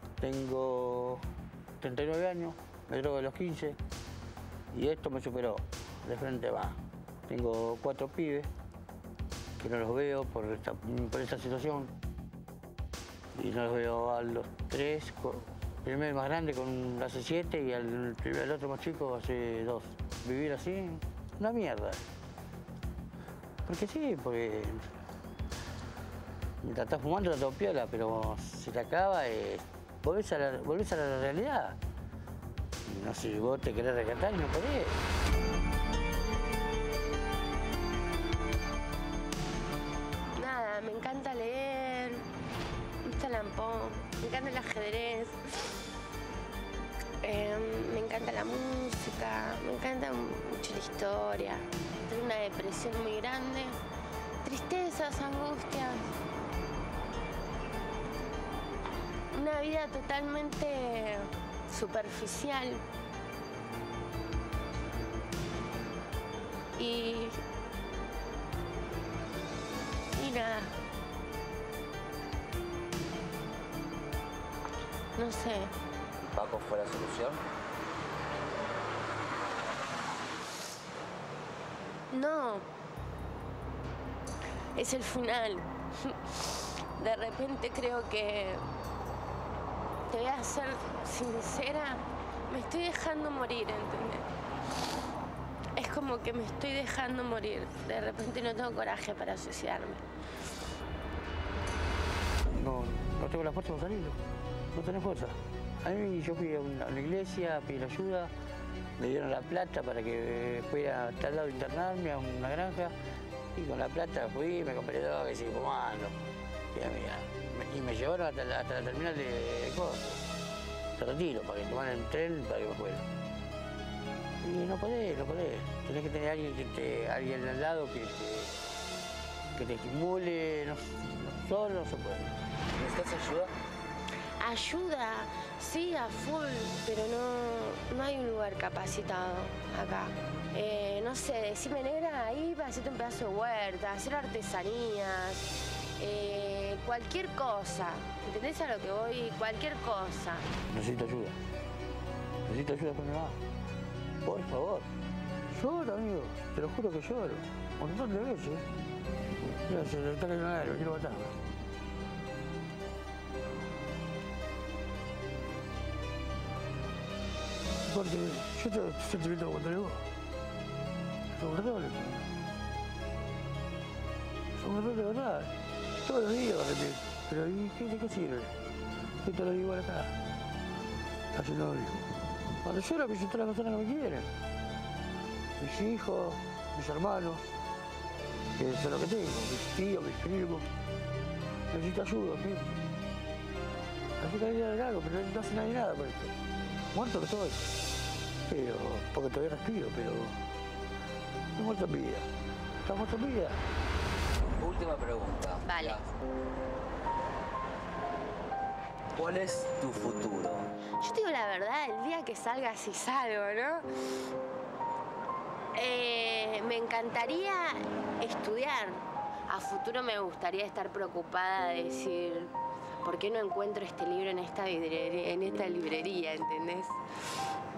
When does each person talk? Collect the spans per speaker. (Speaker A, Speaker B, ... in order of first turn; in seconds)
Speaker A: 0.2-3.8, 4.7-8.5, 9.6-11.9, 13.3-22.1, 23.7-25.0, 26.6-31.8, 32.9-35.0, 102.5-108.3, 109.0-113.0, 113.5-116.2, 116.7-120.2, 121.0-123.1, 124.4-128.6, 129.6-132.4, 150.7-151.4, 152.5-153.4, 154.2-154.9, 155.5-158.7, 159.5-161.4, 167.8-170.1, 171.3-172.3, 174.6-178.6, 179.2-180.2, 181.3-184.3, 185.6-187.5, 188.6-190.7, 191.7-192.8, 194.2-196.3, 196.9-197.7, 198.5-200.4, 201.6-202.3, 202.8-203.6
Speaker B: 40.3-42.3, 43.0-45.8, 47.2-53.8, 54.4-56.2, 59.3-62.8, 66.8-67.4, 70.1-70.8, 75.2-75.7, 82.1-82.7, 84.7-88.7, 90.1-94.3, 95.8-100.0, 134.4-150.5, 205.6-206.0, 211.0-214.2, 215.7-227.0
Speaker C: 76.2-77.4, 132.7-133.5, 204.6-206.1, 209.2-210.7